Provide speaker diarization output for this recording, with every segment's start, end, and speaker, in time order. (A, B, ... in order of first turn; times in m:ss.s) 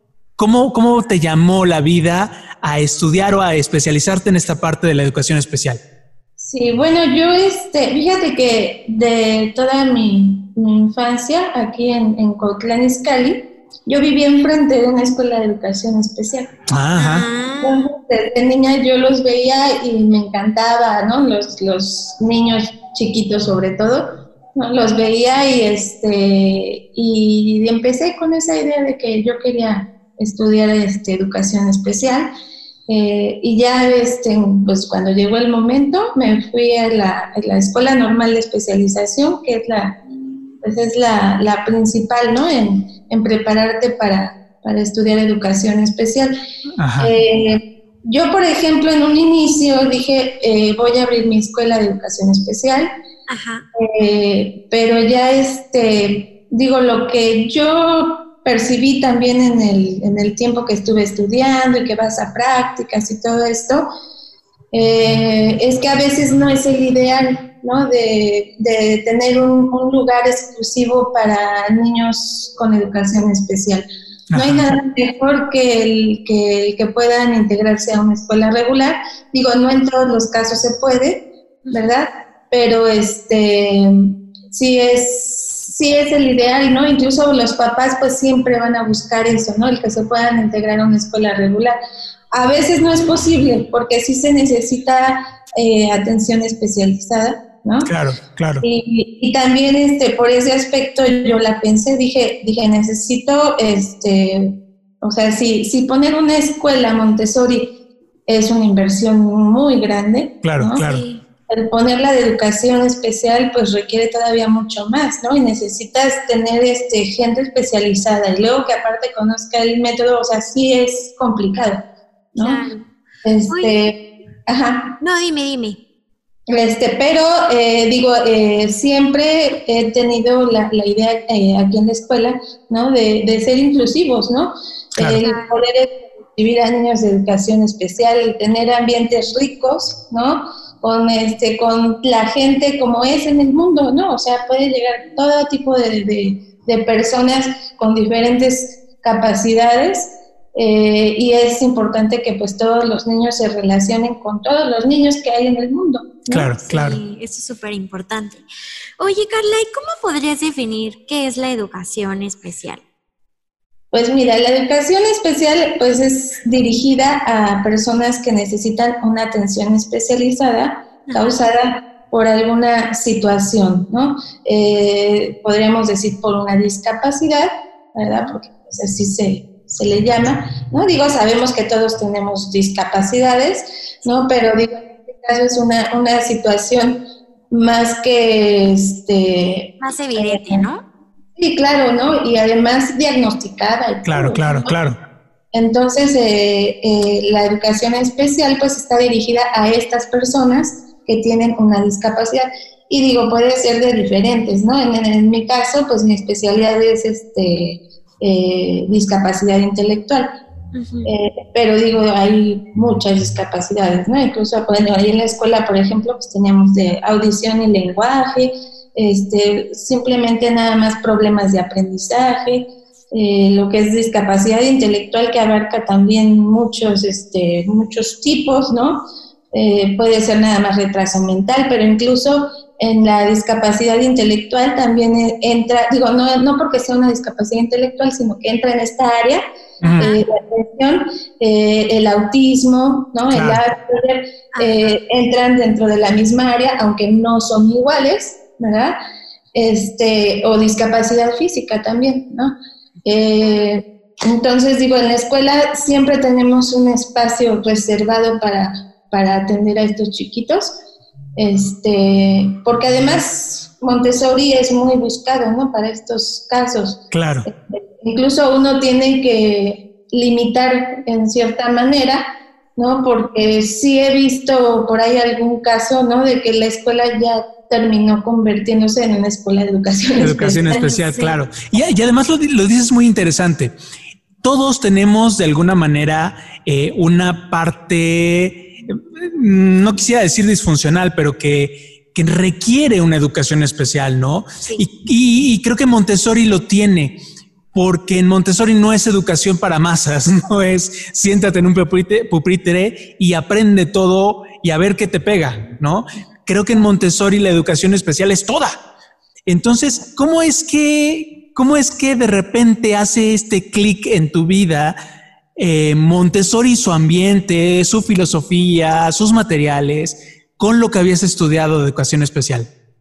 0:00.4-0:05.8 A
0:06.4-0:16.5 B
0:16.7-0:17.2 A
0:17.0-0:17.9 C
0:17.6-0:32.3 B
0:32.9-0:40.0 B
0:40.6-0:46.4 B
0:46.8-0:47.1 A
0:47.0-0:52.9 B
0:53.3-0:53.6 C
0:53.8-1:03.9 B
1:04.7-1:31.8 B
1:14.3-1:14.8 A
1:32.3-1:37.9 B
1:37.8-1:38.6 A
1:38.6-1:47.7 B
1:48.3-1:50.8 B
1:50.4-1:51.0 A
1:50.8-1:51.2 C
1:51.5-2:01.8 B
2:02.4-2:02.6 B
2:02.4-2:02.9 C
2:03.2-2:05.0 B
2:03.5-2:03.8 C
2:05.0-2:05.8 C
2:06.5-2:36.5 B
2:15.2-2:15.6 C
2:36.3-2:37.0 A
2:36.6-2:38.5 C
2:39.0-2:42.8 C
2:43.9-3:10.7 B
2:51.1-2:51.5 C
3:09.8-3:10.8 C
3:11.4-3:14.7 B
3:14.1-3:15.0 A
3:15.5-3:30.3 B
3:30.7-3:31.2 C
3:31.0-4:09.0 B
3:59.8-4:00.1 A
4:00.0-4:00.2 C
4:03.3-4:03.6 A
4:04.5-4:05.0 C
4:09.5-4:20.7 B
4:21.4-4:40.8 B
4:27.1-4:27.5 A
4:40.2-4:43.8 A
4:40.7-4:41.4 C
4:44.4-4:57.2 A
4:54.6-4:54.8 C
4:57.7-5:08.8 A
5:09.5-5:15.0 A
5:15.6-5:22.7 A